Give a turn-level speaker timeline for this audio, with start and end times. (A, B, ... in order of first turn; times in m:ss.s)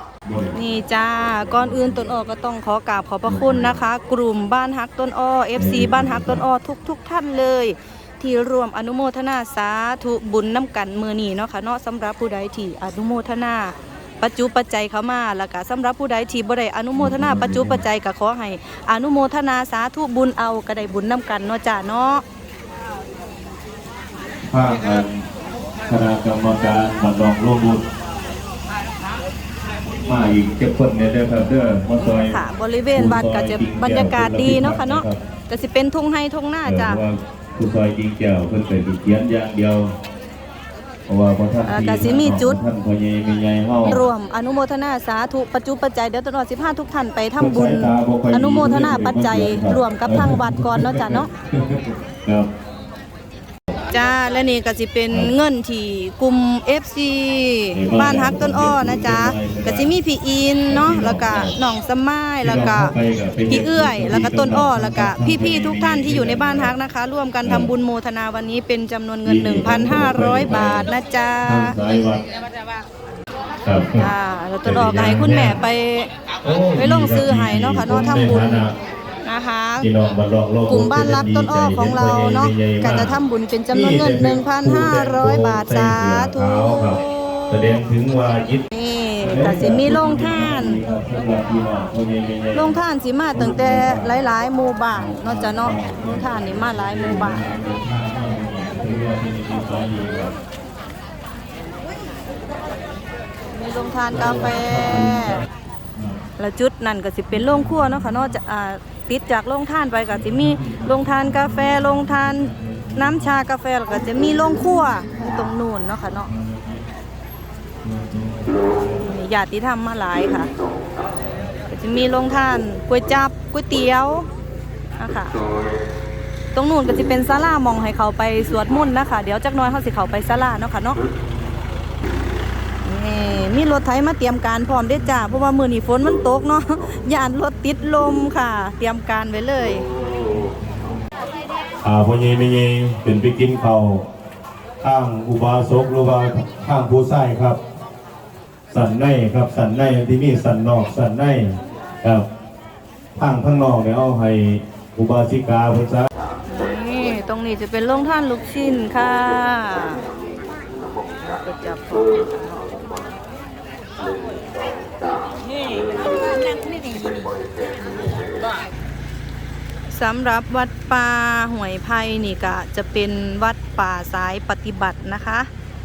0:00.2-0:02.2 A
0:00.5-0:22.2 B
0:03.2-0:03.8 A
0:05.5-0:06.4 A
0:17.0-0:17.8 A
0:24.4-0:25.2 A
0:25.9-0:27.8 A
0:29.9-0:32.4 A
0:32.0-0:37.0 B
0:32.9-0:35.2 A
0:36.6-0:39.9 A
0:41.1-0:44.1 A
0:41.6-0:42.6 B
0:43.8-0:51.3 B
0:47.4-0:52.5 A
0:53.9-1:02.9 B
0:57.7-0:59.9 A
1:00.7-1:01.6 A
1:02.4-1:06.7 A
1:03.5-1:11.7 B
1:07.4-1:07.7 A
1:09.2-1:10.9 A
1:11.4-1:12.2 A
1:13.6-1:14.1 A
1:14.0-1:16.1 B
1:14.6-1:15.6 A
1:16.4-1:18.7 A
1:16.7-1:18.6 B
1:19.2-1:19.9 B
1:19.8-1:23.2 A
1:20.7-1:27.8 B
1:23.7-1:28.6 A
1:28.7-1:30.8 B
1:29.2-1:32.8 A
1:32.5-1:37.4 B
1:33.3-1:34.2 A
1:34.9-1:40.3 A
1:43.5-1:45.4 B
1:44.1-1:45.4 A
1:45.9-1:46.2 A
1:46.4-1:56.3 B
1:47.3-1:48.4 A
1:50.1-1:55.5 A
1:56.1-1:56.8 A
1:57.8-1:59.1 A
1:59.0-2:00.5 B
2:01.7-2:04.3 B
2:04.9-2:05.4 B
2:06.5-2:11.0 B
2:12.8-2:19.9 B
2:14.9-2:15.4 A
2:20.6-2:20.9 A
2:21.8-2:24.0 A
2:24.8-2:27.6 A
2:28.7-2:32.2 A
2:33.1-2:36.1 A
2:36.5-2:40.0 B
2:41.2-2:42.8 B
2:45.6-2:47.4 B
2:49.9-2:55.5 B